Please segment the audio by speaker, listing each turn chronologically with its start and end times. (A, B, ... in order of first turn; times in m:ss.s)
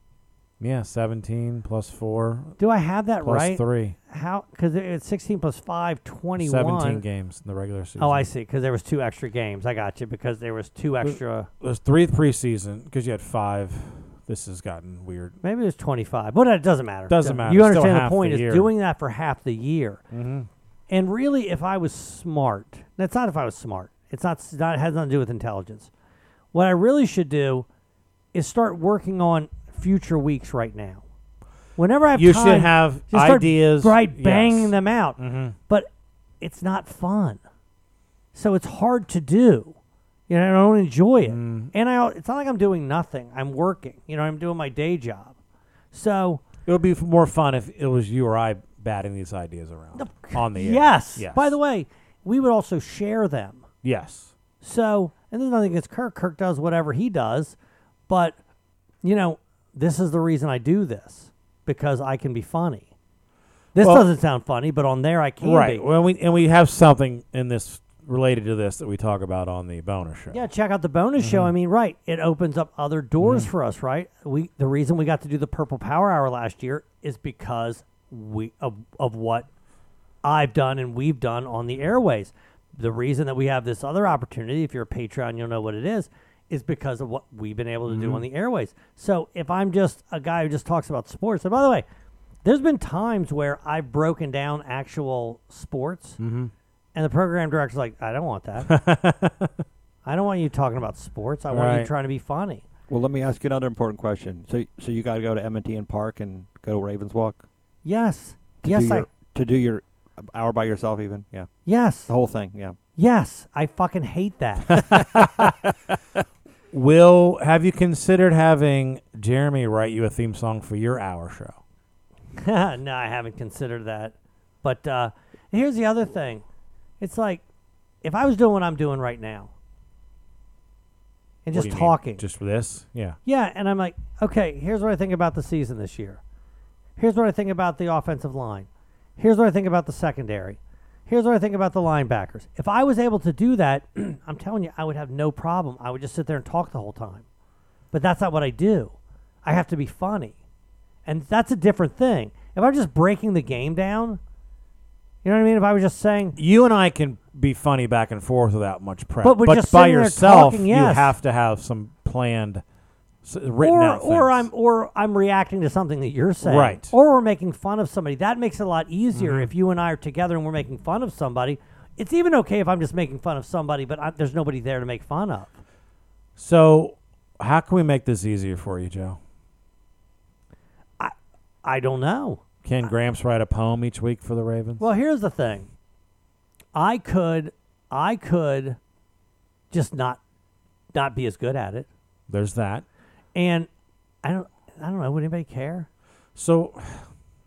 0:00.6-0:02.6 A
0:02.6-0:07.0 B
0:03.2-0:04.0 A
0:06.4-0:08.2 A
0:08.0-0:11.5 B
0:11.0-0:15.4 A
0:15.4-0:20.0 B
0:17.1-0:18.7 A
0:20.1-0:20.5 A
0:20.9-0:25.9 B
0:26.5-0:27.6 B
0:28.3-0:31.0 B
0:31.8-0:35.9 B
0:32.1-0:35.6 A
0:36.4-0:37.4 B
0:38.3-0:39.8 B
0:40.3-0:45.3 B
0:41.2-0:41.7 A
0:45.9-0:46.4 B
0:46.6-0:51.6 A
0:50.0-0:53.6 B
0:53.8-0:54.3 A
0:54.6-0:57.6 B
0:58.1-0:58.4 B
0:59.0-1:02.9 B
1:03.7-1:05.9 B
1:03.8-1:04.1 A
1:05.4-1:10.4 A
1:10.3-1:19.5 B
1:11.2-1:11.5 A
1:13.2-1:13.5 A
1:20.2-1:31.8 B
1:27.9-1:28.2 A
1:32.4-1:36.2 B
1:36.2-1:36.5 A
1:36.9-1:38.7 B
1:38.7-1:39.5 A
1:40.0-1:42.6 B
1:41.5-1:41.9 A
1:42.9-1:47.4 C
1:47.8-1:49.0 B
1:48.6-1:51.5 C
1:51.6-1:52.1 B
1:52.1-1:52.8 C
1:53.0-1:55.0 B
1:54.8-1:55.5 A
1:56.7-2:01.6 A
2:02.4-2:06.4 B
2:07.0-2:07.4 B
2:08.0-2:09.5 B
2:11.4-2:12.2 B
2:11.5-2:13.2 A
2:13.2-2:16.2 B
2:17.0-2:27.2 B
2:27.9-2:30.4 B
2:31.0-2:34.2 B
2:35.2-2:36.4 B
2:36.4-2:42.6 A
2:39.2-2:41.1 B
2:43.2-2:44.5 A
2:43.6-2:55.5 B
2:46.4-2:46.9 A
2:49.1-2:49.5 A
2:56.4-2:59.2 A
3:01.0-3:02.4 B
3:02.6-3:04.9 A
3:04.8-3:05.7 B
3:06.7-3:08.8 B
3:09.7-3:10.2 B
3:10.9-3:11.9 B
3:12.3-3:12.8 A
3:13.3-3:13.7 B
3:14.2-3:15.9 B
3:16.4-3:17.1 A